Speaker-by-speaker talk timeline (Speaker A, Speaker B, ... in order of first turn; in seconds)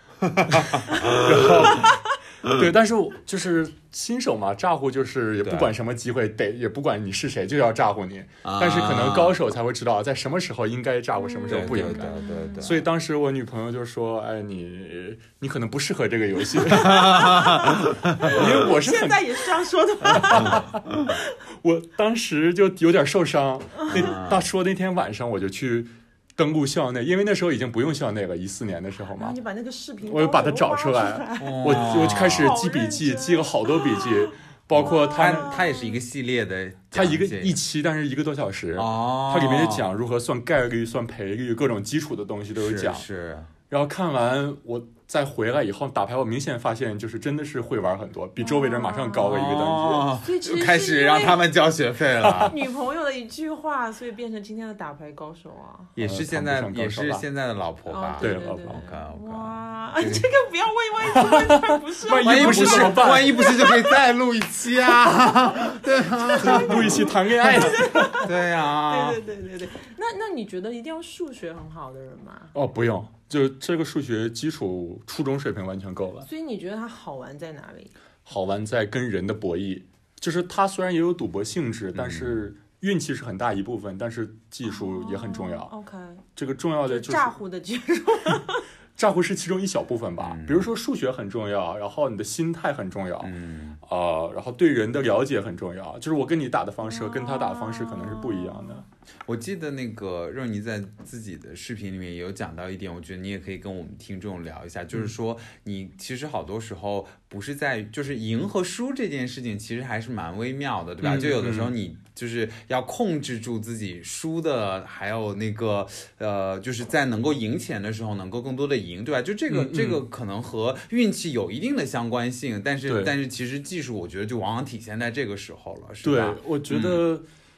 Speaker A: 0.4-1.9, 5.4-5.7, 8.4-9.4, 11.5-12.9, 16.7-18.2, 20.3-20.6, 23.9-24.4, 31.4-32.5, 34.7-37.6, 38.8-39.9, 42.5-43.5, 49.2-52.5, 56.0-60.3, 62.2-69.2, 81.9-82.4, 90.2-90.7, 93.2-93.8, 99.2-127.0
Speaker B: 0.5-19.4, 20.1-20.9, 21.6-29.4, 30.0-35.6, 36.9-43.0, 43.7-50.1, 56.0-57.2, 58.2-58.8, 61.1-63.4, 66.4-68.2, 72.5-76.3, 78.2-85.7, 86.3-87.3, 89.0-93.3, 93.8-98.8, 111.0-111.7, 119.5-120.0, 122.9-123.2, 126.0-127.2
Speaker C: 11.2-12.7, 16.8-20.6, 23.8-24.2, 29.1-36.0, 48.4-49.4, 50.1-51.4, 52.3-55.9, 57.9-64.0, 65.6-72.5, 76.2-77.9, 84.7-86.2, 86.8-88.7, 96.8-98.8